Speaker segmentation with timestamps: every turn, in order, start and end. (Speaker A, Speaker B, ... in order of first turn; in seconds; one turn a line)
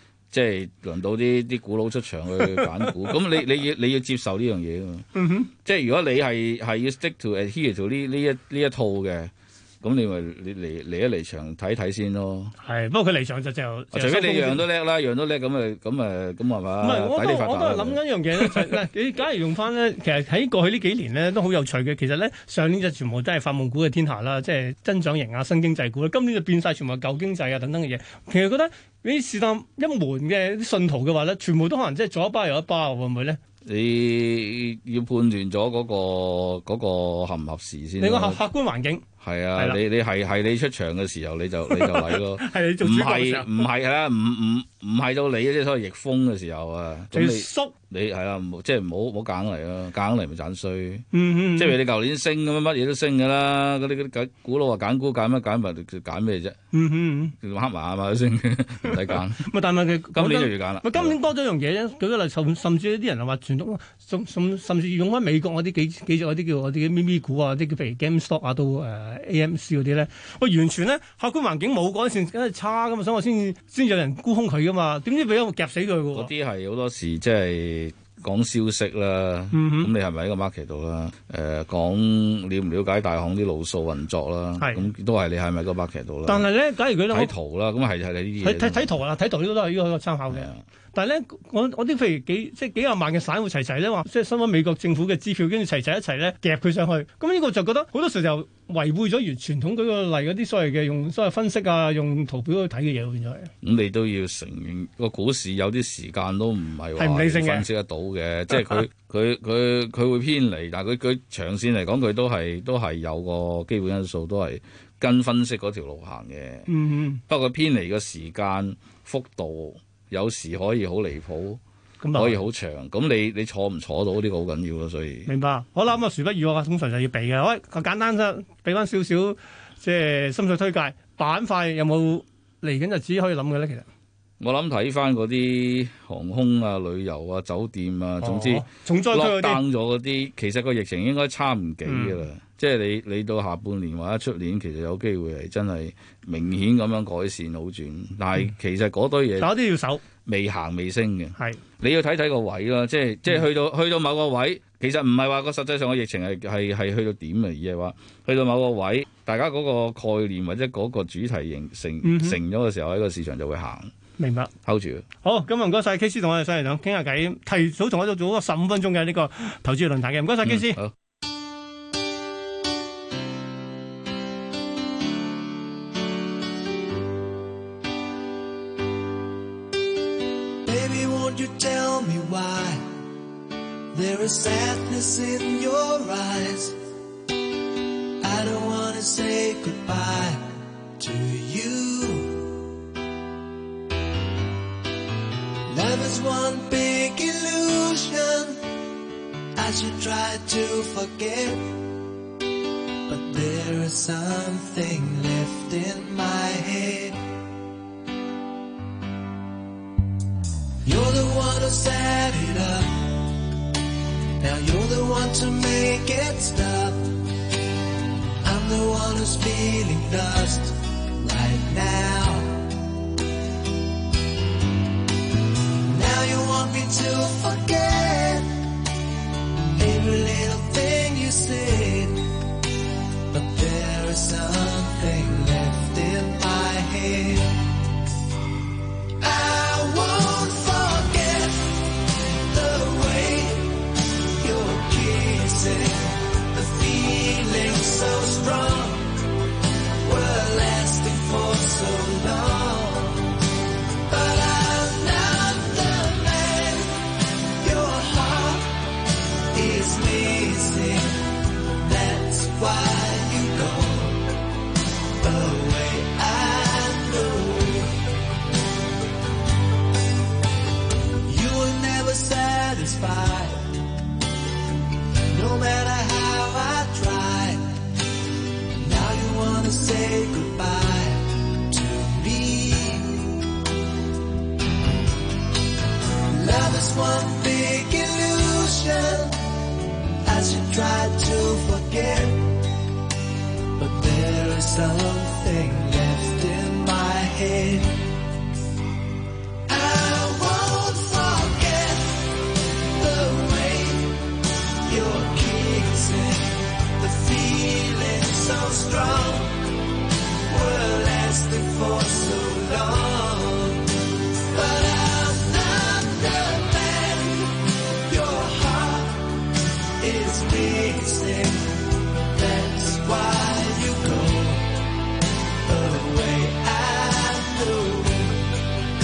Speaker A: 0.3-9.3
Speaker B: 2.4-2.7
Speaker B: 5.2-5.5
Speaker A: 9.8-12.6
Speaker B: 12.6-14.7
Speaker A: 13.9-18.8
Speaker B: 16.8-33.4
Speaker A: 33.7-38.4
Speaker B: 38.0-39.0
Speaker A: 39.2-56.6
Speaker B: 39.6-39.8
Speaker B: 41.7-43.6
Speaker B: 47.1-47.7
Speaker B: 51.1-51.8
Speaker B: 56.7-57.4
Speaker A: 57.4-59.5
Speaker B: 58.8-76.3
Speaker A: 60.1-61.2
Speaker A: 76.1-86.5
Speaker B: 79.5-79.9
Speaker B: 84.6-84.9
Speaker B: 86.3-87.3
Speaker A: 87.1-89.0
Speaker B: 88.4-103.5
Speaker A: 90.3-90.6
Speaker A: 103.6-116.7
Speaker B: 107.0-107.7
Speaker B: 116.7-117.2
Speaker A: 117.3-121.6
Speaker B: 122.0-122.4
Speaker A: 122.2-125.3
Speaker B: 125.3-133.9
Speaker A: 134.4-149.5
Speaker B: 138.2-139.6
Speaker B: 141.8-142.2
Speaker B: 149.4-150.0
Speaker A: 150.3-163.9
Speaker B: 162.0-162.4
Speaker B: 164.2-164.5
Speaker A: 164.7-165.1
Speaker B: 165.2-170.8
Speaker A: 170.5-170.9
Speaker C: 180.7-183.0
Speaker C: 183.9-186.8
Speaker C: 188.2-192.6
Speaker C: 195.7-198.7
Speaker C: 199.6-201.8
Speaker C: 203.1-207.3
Speaker C: 210.8-213.3
Speaker C: 214.4-217.2
Speaker C: 218.4-222.7
Speaker C: 225.8-228.7
Speaker C: 229.8-232.4
Speaker C: 233.3-237.7
Speaker C: 239.2-249.3
Speaker C: 250.0-253.4
Speaker C: 254.1-264.4
Speaker C: 265.2-268.0
Speaker C: 271.2-273.9
Speaker C: 275.3-278.0
Speaker C: 278.8-283.4
Speaker C: 286.3-289.6
Speaker C: 290.2-292.7
Speaker C: 293.8-298.1
Speaker C: 299.7-309.8
Speaker C: 310.5-324.9
Speaker C: 325.6-328.5